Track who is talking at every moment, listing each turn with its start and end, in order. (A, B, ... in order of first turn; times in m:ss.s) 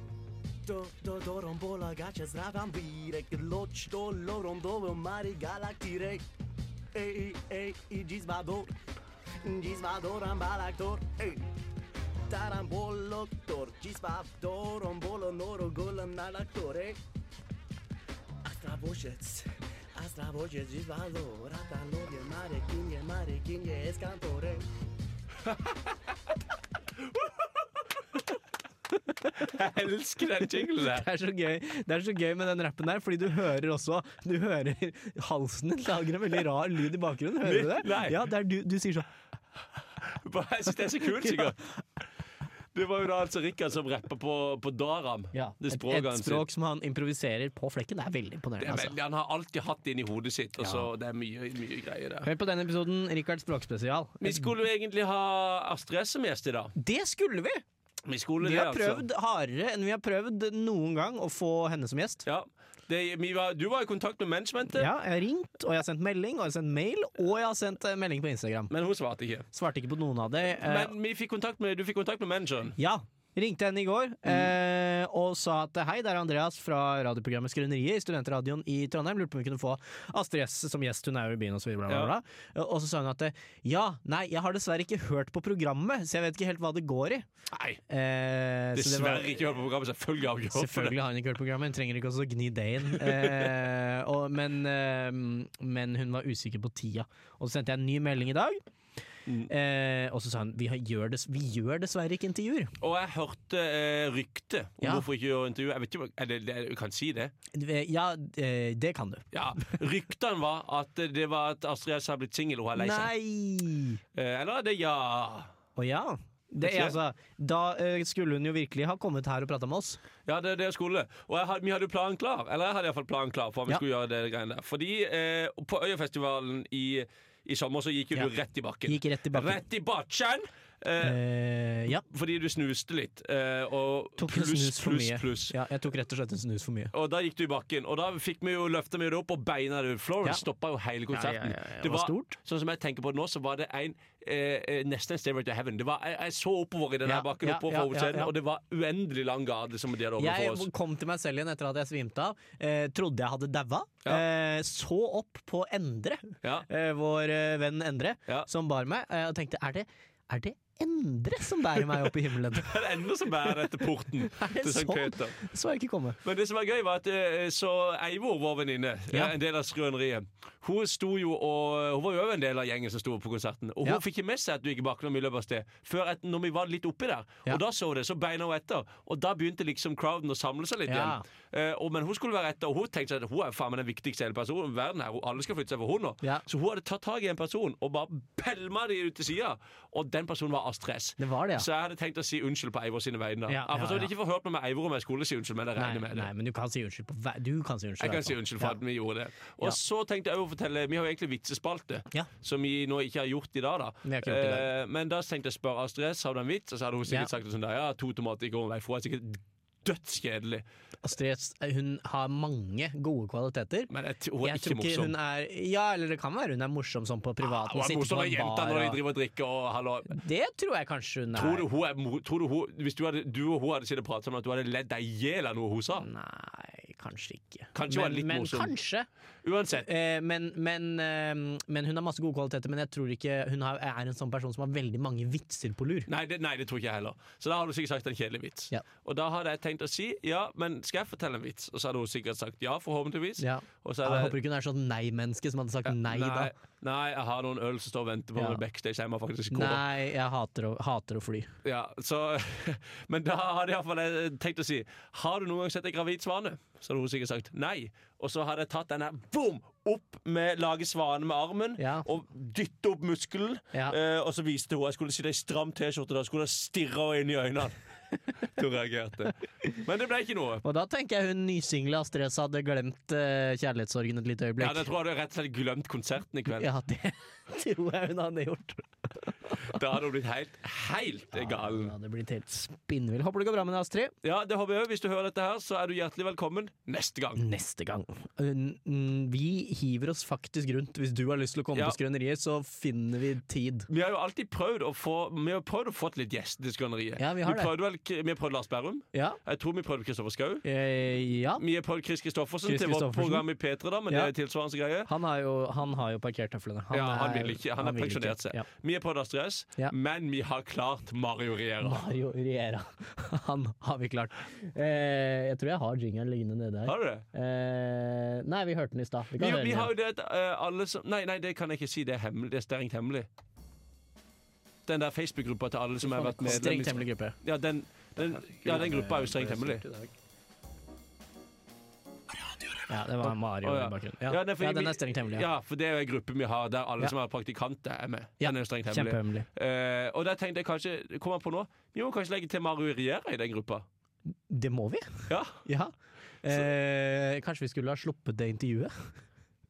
0:00.6-0:06.2 A
0:06.9-0:08.7 A
0:09.4-0:11.5 A
0:12.3-0:17.0 A
0:18.4-0:24.6 A
0:29.3-0:31.1 B
0:30.4-0:39.1 C
0:37.4-0:38.2 B
0:40.0-0:41.6 B
0:41.2-0:41.5 C
0:42.7-0:46.4 B
0:45.3-0:49.0 C
0:48.6-0:52.3 B
0:50.6-0:50.9 C
0:52.2-0:54.5 C
0:54.2-0:56.7 B
0:56.8-0:57.6 C
0:58.0-0:59.0 B
0:58.4-1:02.2 C
1:02.2-1:04.9 B
1:04.8-1:08.7 C
1:08.7-1:09.5 B
1:09.5-1:10.9 C
1:10.6-1:12.8 B
1:12.8-1:27.2 C
1:21.9-1:22.1 B
1:27.5-1:27.8 B
1:27.9-1:29.4 C
1:28.7-1:31.0 B
1:30.5-1:38.6 C
1:33.0-1:33.5 B
1:39.5-1:42.7 C
1:42.8-1:47.3 B
1:44.8-1:45.0 C
1:47.5-1:49.8 C
1:49.3-1:53.1 B
1:52.8-1:54.0 C
1:54.1-1:55.5 B
1:55.8-2:00.0 C
1:56.6-1:57.0 B
2:00.3-2:11.2 B
2:08.8-2:09.6 C
2:11.0-2:12.0 C
2:12.0-2:15.5 B
2:14.2-2:16.9 C
2:16.9-2:30.7 B
2:21.1-2:22.3 C
2:27.0-2:28.3 C
2:30.2-2:43.0 C
2:41.8-2:45.4 B
2:44.3-2:46.2 C
2:46.2-3:16.3 B
3:00.9-3:01.2 C
3:11.2-3:11.6 C
3:13.5-3:14.1 C
3:15.8-3:18.8 C
3:18.0-3:30.6 B
3:24.0-3:24.7 C
3:31.0-3:33.9 C
3:33.9-3:35.1 B
3:34.4-3:39.0 C
3:37.4-3:40.2 B
3:40.1-3:41.6 C
3:41.3-3:46.0 B
3:46.0-3:49.1 C
3:47.7-3:48.7 B
3:49.4-3:49.9 B
3:49.7-3:56.1 C
3:56.1-4:04.4 B
4:03.4-4:06.5 C
4:05.8-4:09.8 B
4:09.5-4:11.5 C
4:11.6-4:27.8 B
4:21.8-4:22.1 C
4:28.4-4:30.6 B
4:30.6-4:34.9 C
4:34.6-4:36.7 B
4:36.5-4:39.7 C
4:39.6-4:41.9 B
4:41.3-4:44.1 C
4:44.2-4:47.4 B
4:47.4-4:53.9 C
4:53.9-5:00.6 B
4:57.2-4:57.7 C
4:59.1-4:59.4 C
5:00.6-5:01.6 C
5:01.6-5:05.1 B
5:02.6-5:03.5 C
5:05.0-5:08.6 C
5:06.9-5:12.0 B
5:11.8-5:19.9 C
5:16.8-5:17.2 B
5:19.3-5:23.3 B
5:24.8-5:29.8 B
5:26.0-5:27.4 C
5:28.6-5:30.1 C
5:32.9-5:35.4 C
5:33.2-5:43.8 B
5:38.4-5:39.5 C
5:44.5-5:45.9 C
5:45.3-5:45.6 B
5:46.4-5:49.1 C